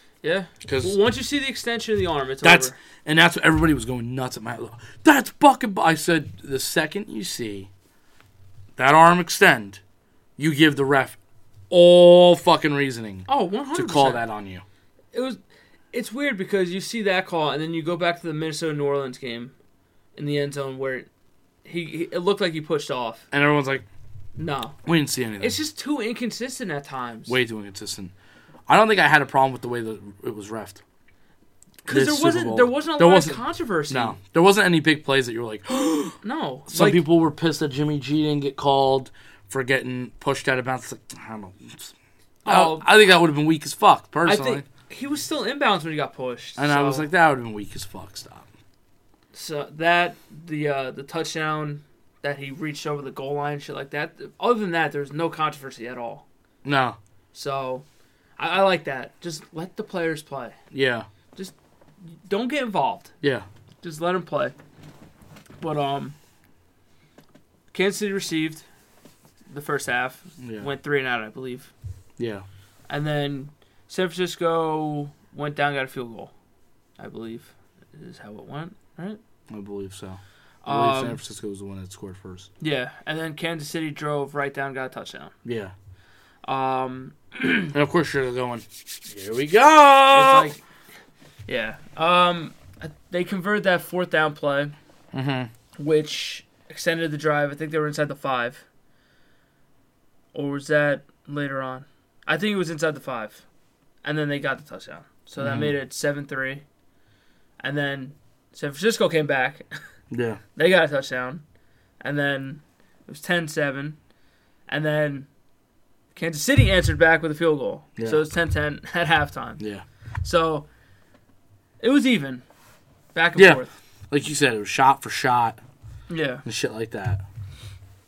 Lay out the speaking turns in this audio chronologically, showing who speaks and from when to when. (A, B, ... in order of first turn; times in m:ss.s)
0:00.2-0:02.8 A
0:00.6-0:01.0 B
0:02.4-0:07.7 B
0:08.8-0:09.8 B
0:10.4-0:11.2 B
0:11.7-0:14.6 B
0:13.3-0:14.2 A
0:15.1-0:15.4 A
0:15.9-0:19.6 A
0:20.2-0:21.1 A
0:21.6-0:23.2 A
0:23.3-0:23.8 B
0:24.4-0:24.8 A
0:24.9-0:25.6 B
0:25.4-0:27.4 A
0:27.3-0:28.1 B
0:28.7-0:30.8 B
0:31.9-0:34.2 A
0:31.9-0:41.9 B
0:36.2-0:37.0 A
0:42.4-0:42.8 A
0:42.4-0:44.7 B
0:44.2-0:47.1 A
0:46.6-0:48.5 B
0:49.3-0:56.2 A
0:56.6-0:57.0 B
0:57.3-0:57.8 A
0:58.4-1:00.6 A
1:00.7-1:01.1 B
1:02.1-1:03.1 A
1:03.8-1:04.6 A
1:05.6-1:06.2 A
1:07.7-1:08.6 A
1:09.5-1:11.7 A
1:10.4-1:10.7 B
1:12.2-1:12.5 B
1:12.9-1:16.3 A
1:17.0-1:19.2 A
1:19.5-1:22.5 B
1:20.6-1:21.2 A
1:22.6-1:25.3 A
1:25.4-1:25.7 B
1:26.4-1:27.7 A
1:27.7-1:30.5 B
1:30.1-1:30.6 A
1:31.5-1:34.8 A
1:35.1-1:35.5 B
1:35.8-1:38.6 A
1:40.3-1:43.4 A
1:44.0-1:46.6 A
1:45.4-1:45.8 B
1:47.6-1:49.7 A
1:50.1-1:50.4 B
1:50.6-1:51.4 A
1:52.0-1:54.0 A
1:54.7-1:55.3 A
1:56.1-1:59.6 A
1:58.0-1:58.2 B
1:59.6-1:59.8 B
2:00.2-2:00.7 A
2:01.8-2:02.4 A
2:03.1-2:03.7 A
2:03.4-2:05.6 B
2:06.1-2:06.4 A
2:06.4-2:07.2 B